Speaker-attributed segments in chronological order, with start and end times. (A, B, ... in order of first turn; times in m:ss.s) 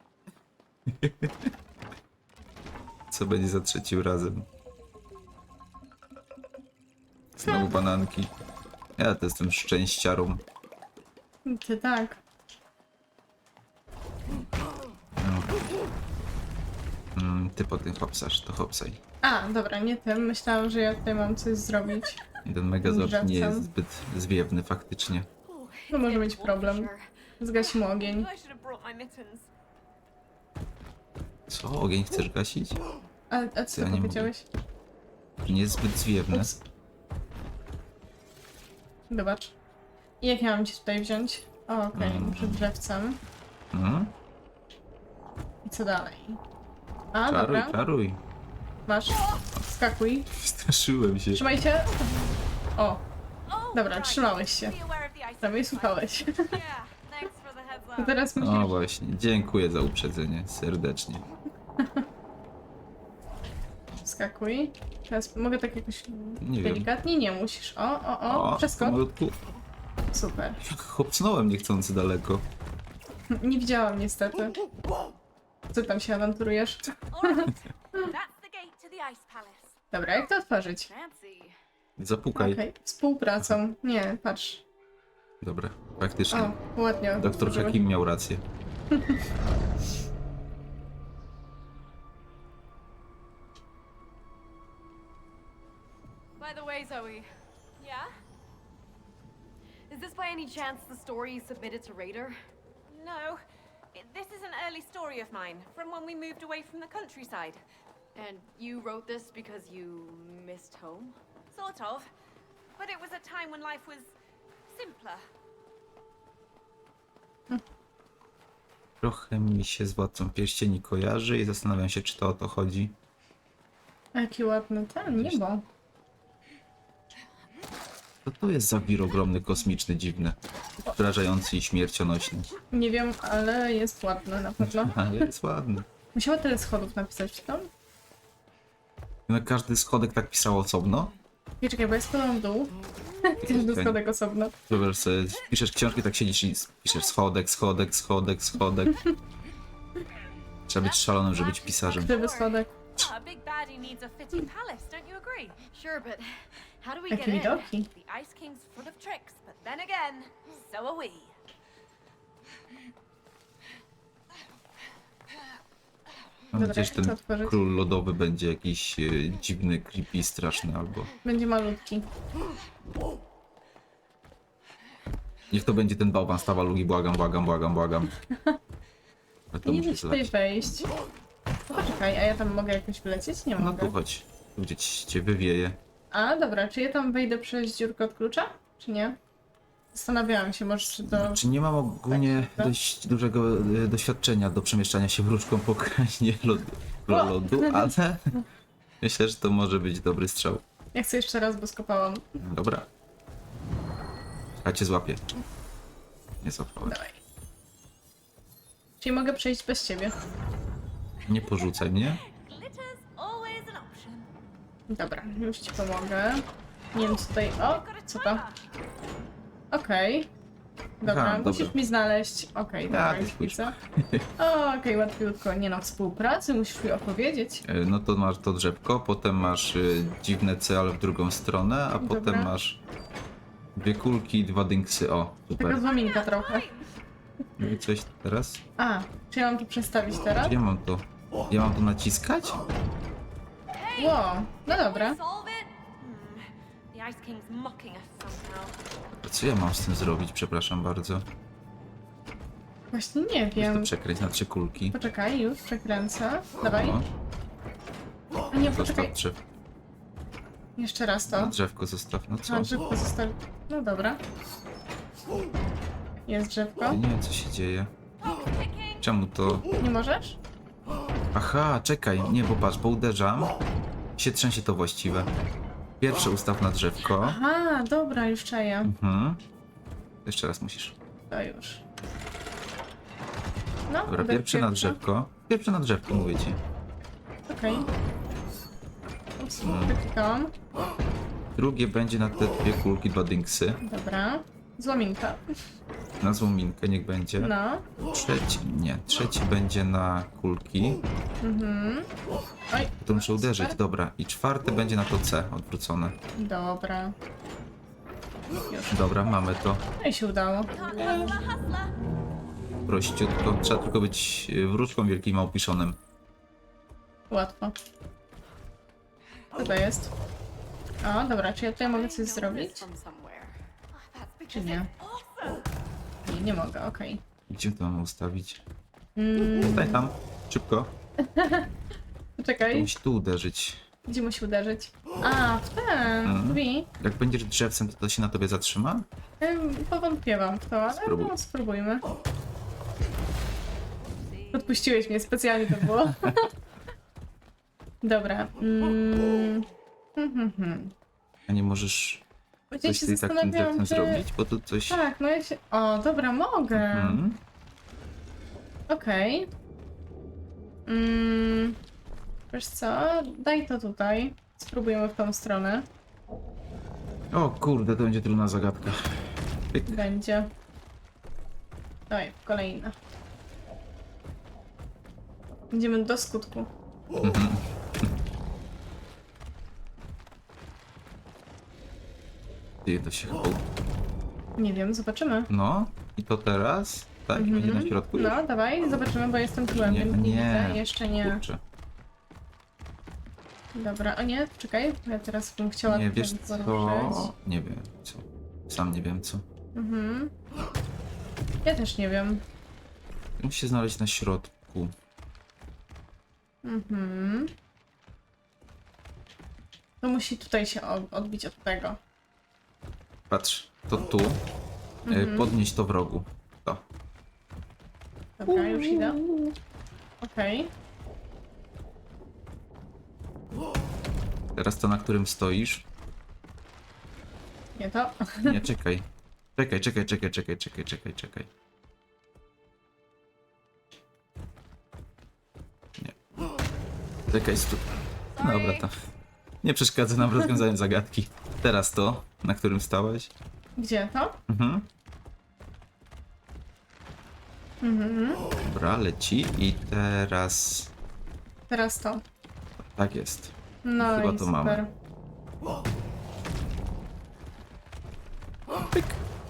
0:00.9-0:01.5 A
0:03.1-0:04.5 A
0:07.4-0:08.3 A
0:09.0-0:10.4 A
0:11.4-0:12.2 B
0:15.2-0:15.6 A
0:17.2-0:19.0 A
0:19.2-0:22.2 B
0:22.4-0:25.3 A
0:22.8-0:23.7 B
0:25.5-0:27.1 C
0:25.9-0:28.3 B
0:27.6-0:29.5 D
0:31.5-0:32.8 A
0:33.3-0:34.4 B
0:33.8-0:34.3 A
0:35.4-0:36.5 A
0:36.3-0:36.6 B
0:39.1-0:39.6 B
0:40.2-0:43.2 B
0:42.0-0:42.7 A
0:43.7-0:44.1 A
0:45.6-0:46.4 B
0:47.1-0:47.8 B
0:47.3-0:48.2 A
0:48.9-0:50.3 B
0:50.3-0:51.4 A
0:51.3-0:52.2 B
0:52.8-0:53.0 B
0:53.5-0:56.6 D
0:53.7-0:54.8 B
0:55.4-0:56.5 B
0:56.4-0:58.2 C
0:58.0-0:58.8 B
0:58.4-1:01.2 A
1:01.8-1:02.1 B
1:04.0-1:09.0 B
1:06.4-1:06.9 A
1:08.3-1:09.4 A
1:10.1-1:10.6 B
1:10.6-1:12.5 A
1:13.3-1:14.6 B
1:15.7-1:18.1 B
1:17.1-1:19.8 D
1:19.9-1:20.9 B
1:20.9-1:21.6 C
1:22.0-1:22.6 A
1:22.4-1:24.6 B
1:25.4-1:26.6 A
1:26.3-1:27.8 B
1:27.2-1:28.4 A
1:28.9-1:29.2 B
1:36.4-1:37.3 C
1:37.8-1:38.1 D
1:39.9-1:42.4 C
1:42.9-1:43.4 D
1:43.9-1:47.6 D
1:48.2-1:51.2 C
1:51.5-1:52.1 D
1:52.8-1:54.1 D
1:54.7-1:55.3 D
1:59.0-2:03.0 A
2:04.2-2:05.6 B
2:05.1-2:05.4 A
2:08.2-2:12.5 A
2:12.7-2:15.0 B
2:14.6-2:15.9 A
2:16.2-2:17.7 B
2:19.3-2:21.1 A
2:21.6-2:24.6 B
2:23.4-2:24.0 A
2:24.7-2:29.0 A
2:30.7-2:32.2 A
2:30.8-2:35.6 D
2:32.0-2:32.7 B
2:35.7-2:37.7 C
2:37.1-2:37.9 B
2:37.9-2:41.4 D
2:46.5-2:51.1 A
2:46.5-2:47.6 B
2:51.2-2:52.1 B
2:55.5-2:58.1 A
2:59.5-3:00.4 A
2:59.6-3:00.9 B
3:01.7-3:04.0 B
3:03.6-3:05.8 A
3:06.1-3:09.2 B
3:09.9-3:11.4 B
3:11.1-3:18.3 A
3:12.1-3:12.8 B
3:17.1-3:17.9 B
3:19.0-3:20.6 A
3:20.9-3:22.3 B
3:22.4-3:22.9 A
3:24.6-3:25.2 A
3:26.4-3:27.0 A
3:26.8-3:27.2 B
3:29.0-3:30.1 B
3:31.3-3:32.2 A
3:32.2-3:34.3 D
3:34.9-3:38.4 B
3:37.0-3:38.6 D
3:39.7-3:40.3 B
3:41.0-3:43.8 B
3:41.0-3:41.7 A
3:42.9-3:44.3 A
3:44.4-3:47.6 B
3:47.6-3:52.8 A
3:52.0-3:52.5 B
3:53.8-3:55.8 A
3:55.6-3:56.7 B
3:55.8-3:56.8 D
3:57.6-3:58.6 A
3:58.8-4:00.6 B
4:00.4-4:02.6 A
4:03.7-4:05.7 C
4:04.0-4:05.2 B
4:06.0-4:08.8 D
4:09.2-4:11.3 A
4:12.9-4:13.9 B
4:13.6-4:15.0 A
4:14.9-4:17.0 B
4:16.6-4:17.1 A
4:18.5-4:19.1 B
4:18.6-4:19.4 A
4:20.8-4:21.6 B
4:21.3-4:22.8 A
4:22.5-4:24.2 B
4:26.3-4:27.0 B
4:26.9-4:27.9 A
4:28.2-4:29.0 D
4:29.0-4:29.7 A
4:29.8-4:30.4 B
4:31.3-4:33.6 A
4:34.2-4:35.3 A
4:36.0-4:37.4 A
4:37.2-4:38.9 B
4:38.8-4:39.4 A
4:40.2-4:41.0 A
4:41.3-4:41.8 B
4:43.9-4:45.0 B
4:44.1-4:46.6 A
4:47.5-4:47.9 B
4:49.4-4:50.5 B
4:49.6-4:50.0 A
4:51.6-4:53.8 A
4:53.8-4:55.4 B
4:56.2-4:57.5 A
4:57.4-4:57.9 B
4:58.1-5:01.0 A
5:01.4-5:02.1 B
5:02.7-5:03.8 B
5:03.0-5:06.2 A
5:06.4-5:07.2 B
5:08.7-5:09.0 B
5:08.9-5:09.8 A
5:10.0-5:10.7 B
5:10.7-5:12.0 D
5:12.9-5:16.0 A
5:17.3-5:17.8 B
5:19.6-5:20.1 B
5:21.0-5:22.9 B
5:21.8-5:23.6 C
5:23.9-5:25.7 D
5:24.5-5:24.9 B
5:26.2-5:27.2 B
5:27.5-5:28.6 A
5:29.2-5:30.1 B
5:29.6-5:30.9 A
5:31.2-5:31.7 B
5:32.4-5:32.9 B
5:32.7-5:33.8 A
5:34.1-5:36.9 B
5:36.2-5:39.1 A
5:39.4-5:42.0 B
5:40.9-5:41.3 A
5:44.5-5:46.5 B
5:46.1-5:46.3 A
5:48.0-5:50.9 B
5:51.5-5:52.2 A
5:52.7-5:54.2 B
5:52.8-5:55.1 A
5:54.9-5:57.2 B
5:56.7-5:57.4 A
5:58.9-5:59.5 B
6:00.9-6:01.8 B
6:02.5-6:05.9 B
6:07.3-6:10.1 A
6:09.9-6:10.5 B
6:12.1-6:13.0 B
6:15.7-6:16.7 B
6:17.2-6:18.1 A
6:22.8-6:23.6 A
6:24.6-6:25.5 B
6:25.5-6:28.4 A
6:27.4-6:31.4 B
6:29.7-6:31.6 A
6:33.7-6:37.3 B
6:35.9-6:39.4 A
6:39.8-6:40.3 B
6:41.6-6:42.4 B
6:43.4-6:44.9 A
6:46.6-6:47.5 B
6:50.0-6:52.0 B
6:53.3-6:54.4 A
6:55.1-6:55.6 B
6:55.1-6:56.8 A
6:58.4-6:59.2 B
6:58.5-6:59.5 A
7:00.2-7:00.7 B
7:04.6-7:05.9 A
7:07.8-7:08.6 B
7:08.4-7:11.5 A
7:17.3-7:18.9 A
7:18.3-7:18.9 C
7:19.6-7:23.3 A
7:23.8-7:24.4 B
7:24.5-7:24.9 A
7:27.8-7:28.4 B
7:28.6-7:30.9 A
7:31.7-7:32.2 B
7:32.8-7:34.8 A
7:33.8-7:34.9 B
7:38.8-7:39.2 A